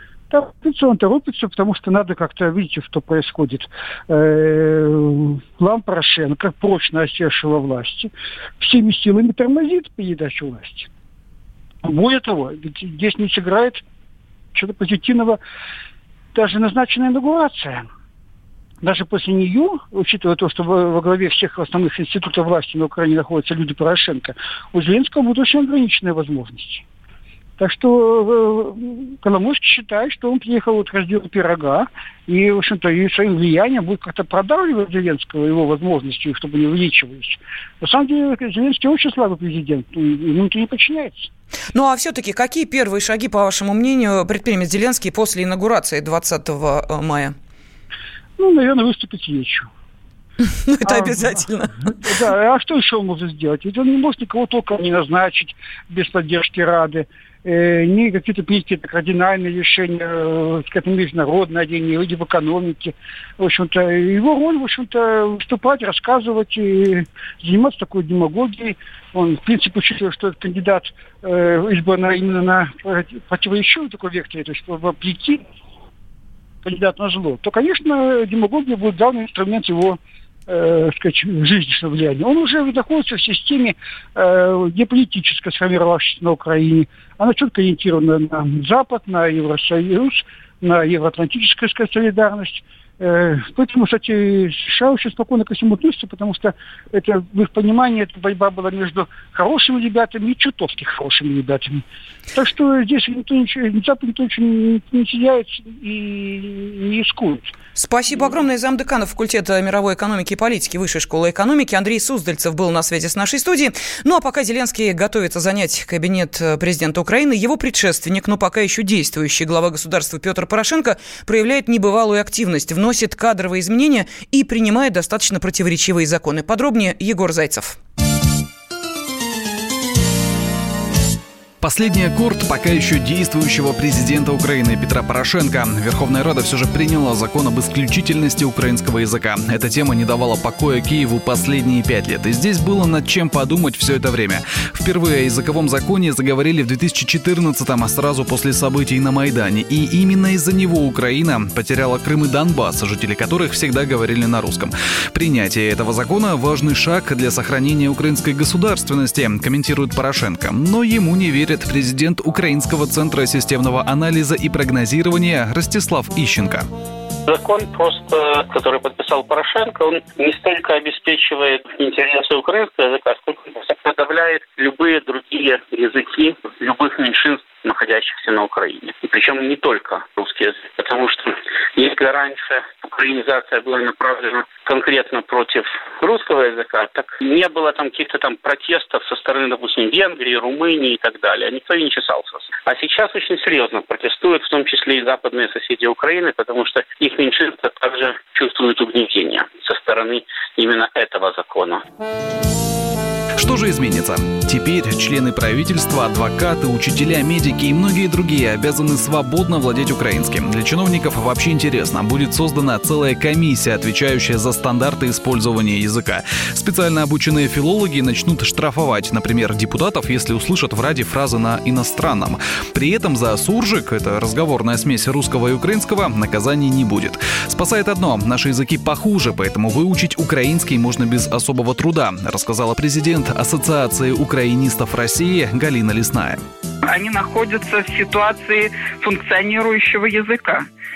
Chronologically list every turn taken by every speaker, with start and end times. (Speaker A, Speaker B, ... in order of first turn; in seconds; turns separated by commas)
Speaker A: 0.3-10.9, Speaker A: 11.8-13.8, Speaker A: 14.5-15.4, Speaker A: 16.4-17.9, Speaker A: 18.8-26.8, Speaker A: 27.6-41.3, Speaker B: 41.7-47.4, Speaker A: 48.4-49.7, Speaker B: 50.7-51.9, Speaker A: 50.9-75.4, Speaker A: 76.6-107.5, Speaker B: 107.8-127.8, Speaker C: 131.6-166.7, Speaker D: 167.3-201.8, Speaker C: 203.4-236.4, Speaker E: 236.8-240.7